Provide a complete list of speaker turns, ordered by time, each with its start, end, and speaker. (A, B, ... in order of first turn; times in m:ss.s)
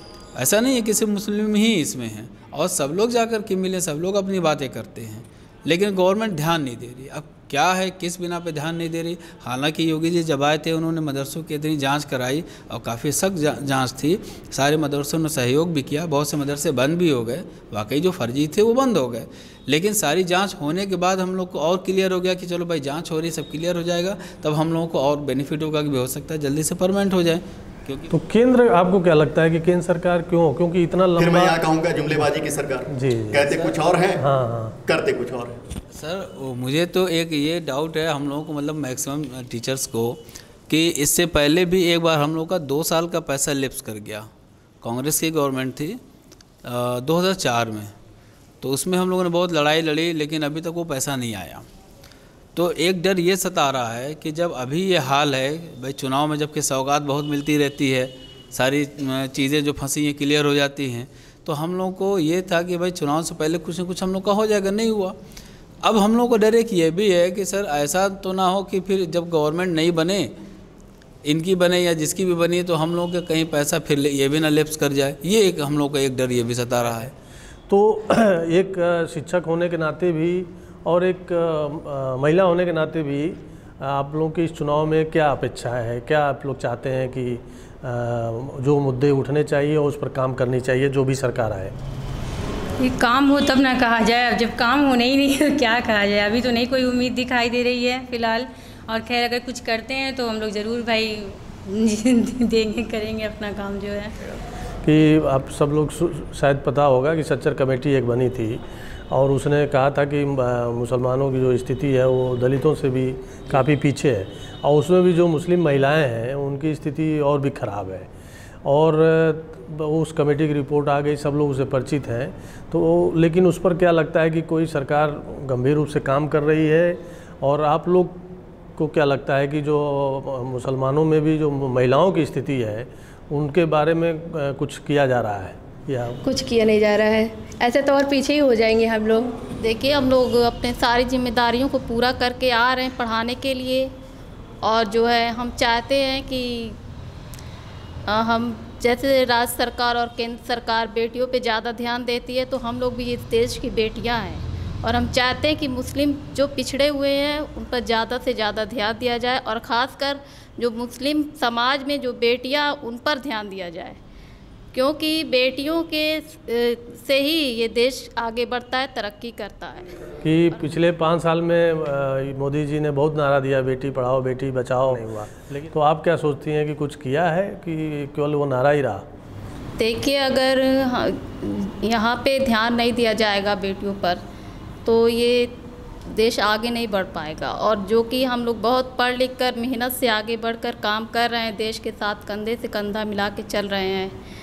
0:00.4-0:28.1 A
0:28.1-0:31.6 B
0:31.2-0:34.2 C
0:32.9-0:33.4 B
0:34.2-0:34.8 B
0:34.9-0:35.6 C
0:35.9-0:44.3 A
0:44.8-0:46.0 A
0:46.6-0:47.9 A
0:48.6-0:51.6 A
0:52.5-1:05.2 A
1:05.8-1:10.3 A
1:11.2-1:17.1 A
1:17.7-1:31.7 B
1:32.8-1:44.1 D
1:44.8-1:58.1 B
1:58.6-2:08.2 B
2:08.8-2:16.2 B
2:16.2-2:19.3 E
2:19.6-2:23.9 F
2:24.6-2:26.8 F
2:28.1-2:44.0 F
2:44.7-2:49.9 F
2:50.2-2:59.0 B
2:59.8-3:04.2 F
3:04.8-3:14.2 F